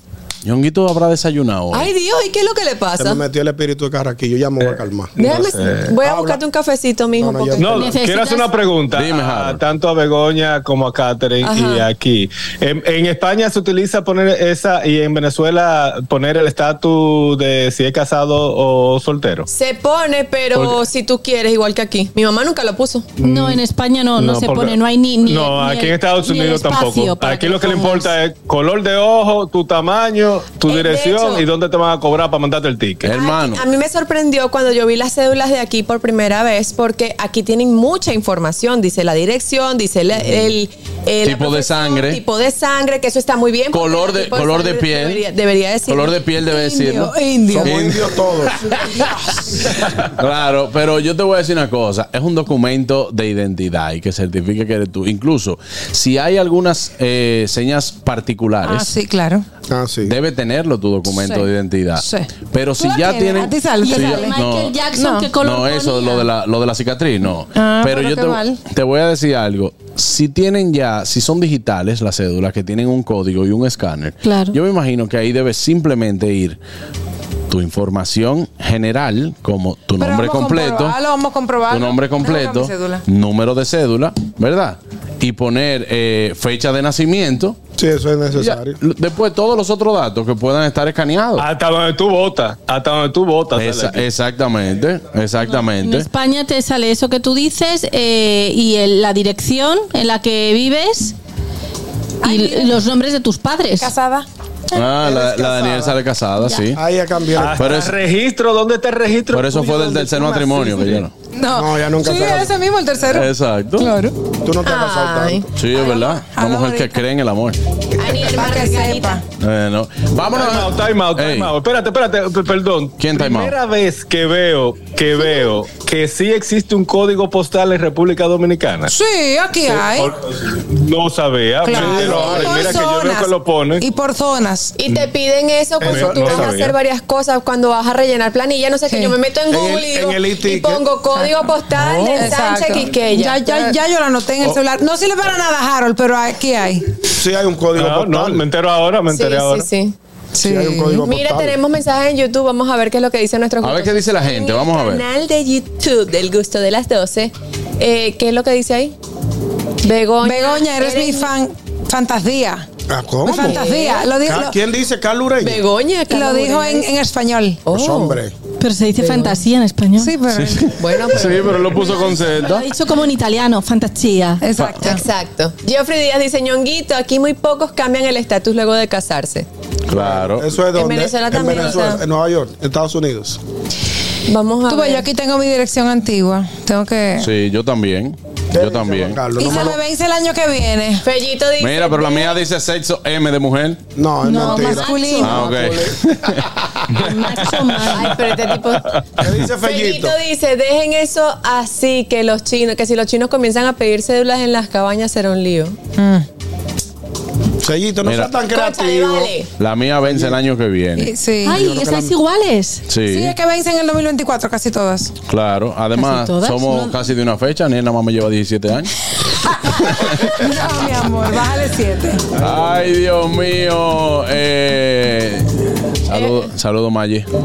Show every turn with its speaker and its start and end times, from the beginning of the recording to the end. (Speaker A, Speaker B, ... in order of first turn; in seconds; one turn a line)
Speaker A: 0.4-1.9
Speaker B: 1.7-3.2
Speaker C: 3.0-5.2
Speaker D: 4.6-6.0
Speaker B: 5.2-7.9
Speaker C: 6.0-6.4
Speaker C: 7.2-8.0
Speaker D: 7.6-19.5
Speaker E: 7.7-8.5
Speaker A: 8.9-9.6
Speaker B: 11.4-11.9
Speaker B: 19.5-23.1
Speaker D: 20.5-20.9
Speaker D: 23.2-23.6
Speaker E: 23.2-28.1
Speaker D: 24.1-33.1
Speaker B: 30.7-31.4
Speaker A: 33.0-33.6
Speaker B: 33.1-46.2
Speaker A: 41.2-42.2
Speaker A: 43.7-45.2
Speaker A: 45.9-59.0
Speaker F: 46.5-47.9
Speaker C: 47.5-48.6
Speaker F: 58.6-59.5
Speaker C: 59.7-60.1
Speaker A: 60.0-64.7
Speaker F: 61.1-64.3
Speaker E: 63.8-66.2
Speaker F: 65.0-65.3
Speaker A: 65.4-76.6
Speaker F: 67.5-68.6
Speaker E: 74.2-74.6
Speaker A: 77.5-81.0
Speaker F: 80.0-83.0
Speaker A: 81.7-87.6
Speaker C: 87.8-88.8
Speaker A: 88.3-91.5
Speaker D: 91.4-94.1
Speaker A: 93.6-96.1
Speaker E: 95.4-101.2
Speaker F: 102.2-102.8
Speaker E: 102.2-103.9
Speaker F: 103.8-104.3
Speaker A: 104.7-106.8
Speaker C: 105.0-106.0
Speaker C: 106.7-107.9
Speaker D: 107.3-109.6
Speaker A: 107.6-108.0
Speaker A: 109.3-111.1
Speaker C: 109.5-112.6
Speaker F: 111.3-114.2
Speaker A: 113.1-113.9
Speaker C: 114.4-115.5
Speaker B: 114.6-115.5
Speaker A: 115.6-117.6
Speaker F: 115.7-117.0
Speaker B: 118.0-119.2
Speaker F: 118.2-119.2
Speaker A: 119.4-121.5
Speaker D: 120.3-128.9
Speaker A: 123.0-123.6
Speaker F: 128.9-130.1
Speaker D: 129.6-133.9
Speaker F: 131.6-134.8
Speaker C: 131.7-132.7
Speaker B: 134.8-143.8
Speaker C: 135.8-136.6
Speaker D: 135.8-136.8
Speaker F: 138.9-139.2
Speaker C: 139.5-140.9
Speaker F: 141.1-146.9
Speaker D: 141.8-142.3
Speaker C: 147.1-148.5
Speaker D: 147.8-149.7
Speaker B: 149.1-149.9
Speaker F: 150.4-151.0
Speaker C: 150.4-151.6
Speaker B: 151.0-159.0
Speaker A: 153.6-155.1
Speaker B: 159.8-161.3
Speaker F: 160.2-162.7
Speaker C: 162.9-163.7
Speaker F: 163.3-164.6
Speaker B: 163.3-164.1
Speaker C: 164.2-165.6
Speaker B: 165.4-166.9
Speaker F: 166.1-167.6
Speaker B: 167.7-168.2
Speaker C: 167.7-168.3
Speaker E: 168.6-170.1
Speaker B: 169.0-169.4
Speaker F: 170.0-170.8
Speaker A: 170.3-172.7
Speaker B: 170.8-172.1
Speaker E: 171.6-174.4
Speaker F: 174.4-175.0
Speaker A: 174.6-174.9
Speaker B: 174.8-179.5
Speaker A: 179.9-180.4
Speaker C: 179.9-183.4
Speaker B: 180.8-182.0
Speaker B: 184.3-185.1
Speaker F: 184.7-187.3
Speaker A: 187.2-189.2
Speaker C: 188.5-189.8
Speaker F: 189.4-191.1
Speaker B: 189.5-189.8
Speaker B: 191.0-192.4
Speaker A: 191.6-193.8
Speaker C: 194.0-196.5
Speaker F: 194.2-195.5
Speaker E: 194.5-195.7
Speaker B: 194.7-195.3
Speaker A: 195.2-196.4
Speaker E: 197.0-198.2
Speaker D: 197.0-198.2
Speaker B: 197.9-198.9
Speaker C: 199.2-200.2
Speaker B: 199.6-205.8
Speaker F: 206.0-206.3
Speaker C: 207.6-209.3
Speaker A: 208.0-208.3
Speaker B: 208.5-209.5
Speaker A: 209.6-211.1
Speaker C: 210.1-210.4
Speaker F: 211.0-211.6
Speaker E: 211.4-212.8
Speaker C: 211.5-212.2
Speaker A: 212.9-213.4
Speaker F: 213.1-215.1
Speaker A: 215.3-219.0
Speaker E: 215.9-216.9
Speaker A: 219.5-220.5
Speaker F: 219.7-222.3
Speaker A: 222.3-227.3
Speaker C: 222.4-222.8
Speaker B: 226.1-226.5